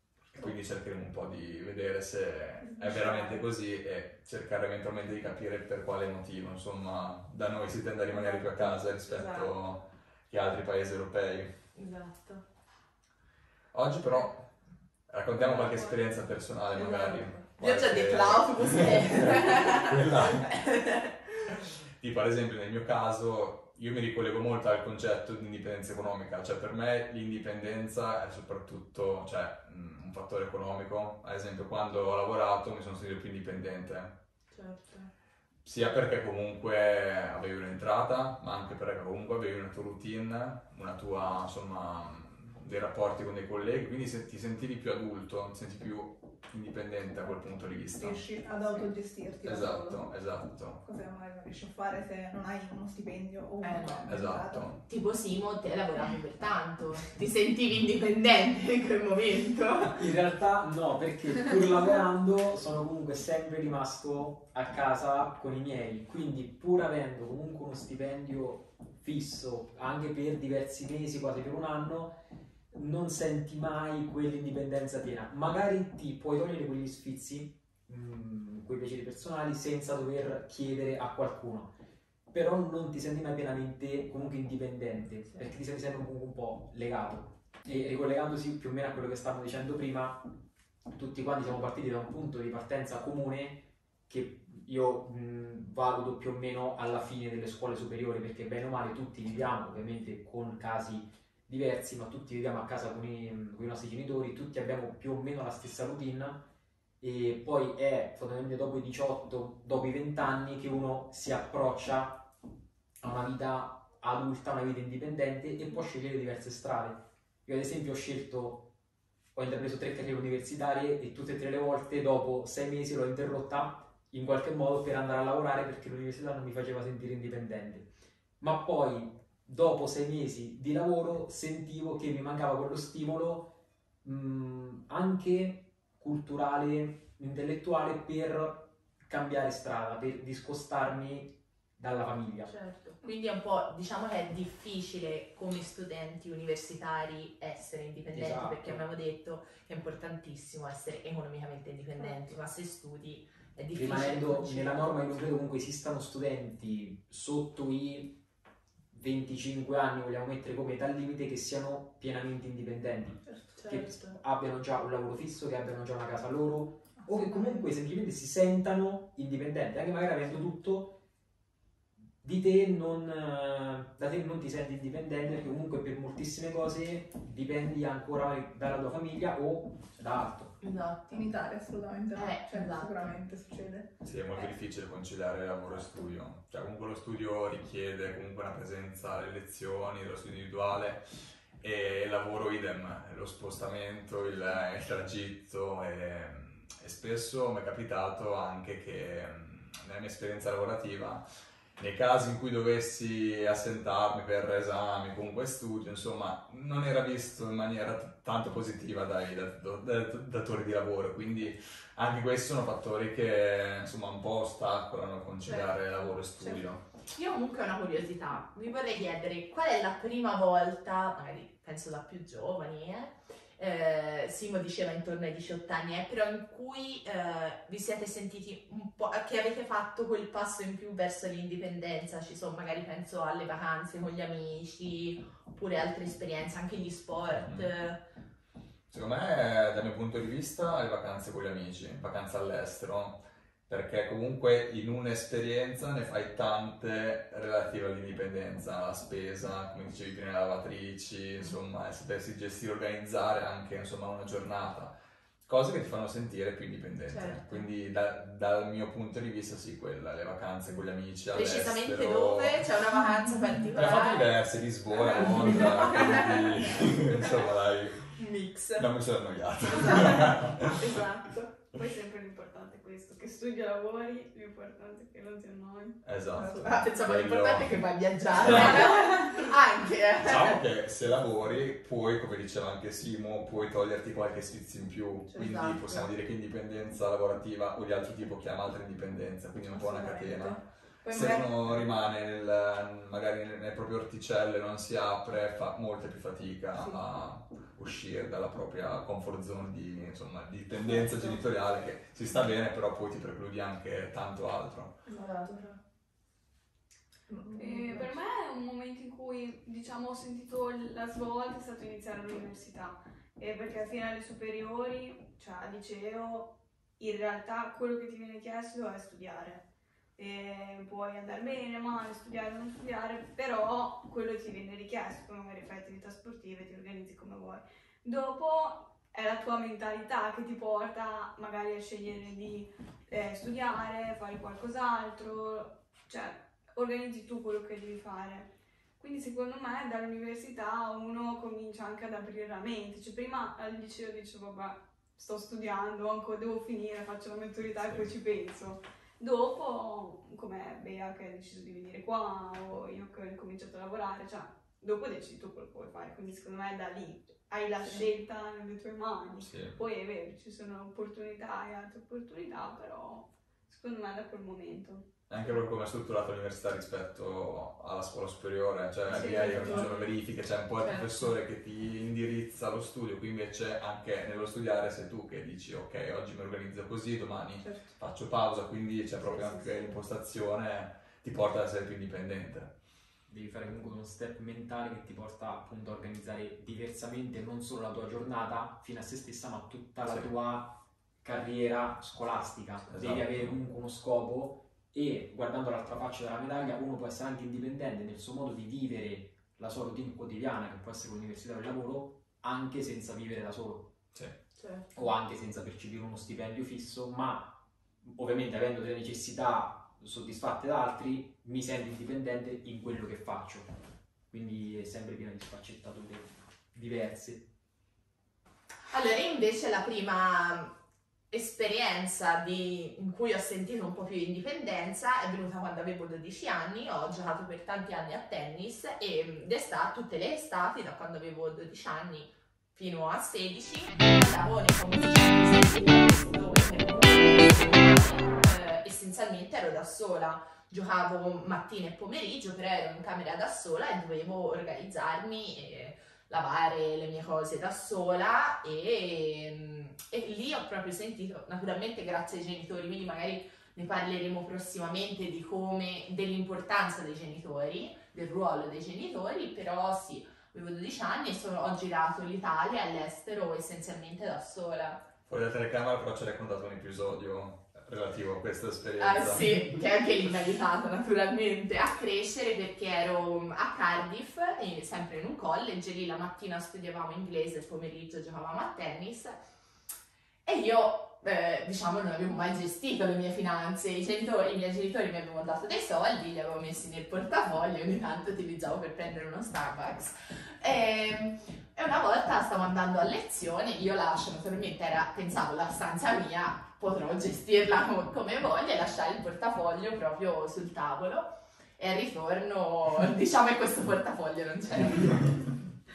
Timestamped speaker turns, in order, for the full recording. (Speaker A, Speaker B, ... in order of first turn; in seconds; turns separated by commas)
Speaker A: 0.3-11.5, Speaker B: 2.7-3.4, Speaker C: 8.2-9.5, Speaker C: 11.7-12.4, Speaker A: 13.7-14.5, Speaker A: 15.1-20.4, Speaker D: 15.4-16.0, Speaker C: 16.8-21.3, Speaker A: 21.5-34.1, Speaker C: 34.5-35.1, Speaker A: 35.6-48.2, Speaker B: 48.0-50.0, Speaker A: 49.4-50.8, Speaker B: 50.8-54.7, Speaker C: 53.6-54.1, Speaker A: 54.1-54.8, Speaker C: 54.8-59.9, Speaker E: 60.0-72.2, Speaker E: 72.7-81.7, Speaker E: 82.3-90.2, Speaker E: 90.9-106.4, Speaker E: 107.0-112.3, Speaker E: 113.0-118.7, Speaker E: 119.3-142.5, Speaker C: 142.4-155.1, Speaker E: 148.1-148.8, Speaker B: 152.0-152.3, Speaker E: 153.7-158.2, Speaker E: 158.9-171.0, Speaker B: 163.2-163.6, Speaker C: 163.6-164.1, Speaker B: 167.0-167.6, Speaker E: 172.2-180.6, Speaker C: 180.6-181.3, Speaker B: 181.1-183.9, Speaker C: 182.1-183.1, Speaker A: 184.0-191.1, Speaker A: 191.6-201.2, Speaker A: 201.8-216.8, Speaker C: 215.4-215.8, Speaker B: 216.4-216.7, Speaker C: 217.1-238.0, Speaker A: 237.3-237.7, Speaker A: 238.9-262.6, Speaker C: 257.1-257.6, Speaker C: 261.3-264.3, Speaker A: 263.7-268.2, Speaker C: 265.1-267.4, Speaker C: 268.1-268.9, Speaker A: 268.8-270.6, Speaker C: 269.8-271.4, Speaker D: 271.7-276.0, Speaker A: 276.0-277.8, Speaker B: 276.4-276.8, Speaker C: 276.6-280.6, Speaker A: 278.3-278.9, Speaker A: 280.2-304.9, Speaker C: 285.3-286.1, Speaker B: 289.7-292.0, Speaker B: 296.7-297.0, Speaker B: 300.8-301.4, Speaker B: 305.1-305.6, Speaker C: 305.1-305.7, Speaker B: 307.3-308.2, Speaker D: 307.6-319.6, Speaker D: 320.2-365.0, Speaker A: 347.8-348.1, Speaker B: 357.8-358.1, Speaker A: 359.4-359.8, Speaker A: 365.3-382.7, Speaker B: 369.1-369.9, Speaker D: 369.1-369.9, Speaker C: 369.2-369.9, Speaker C: 370.8-371.1, Speaker B: 377.6-378.0, Speaker E: 383.3-403.9, Speaker A: 390.0-390.3, Speaker A: 392.9-393.5, Speaker C: 404.6-404.8, Speaker E: 404.9-413.7, Speaker E: 414.3-417.4, Speaker C: 418.9-420.8, Speaker C: 421.3-465.0, Speaker A: 465.3-469.6, Speaker C: 469.0-479.4, Speaker C: 480.4-501.2, Speaker C: 501.8-505.3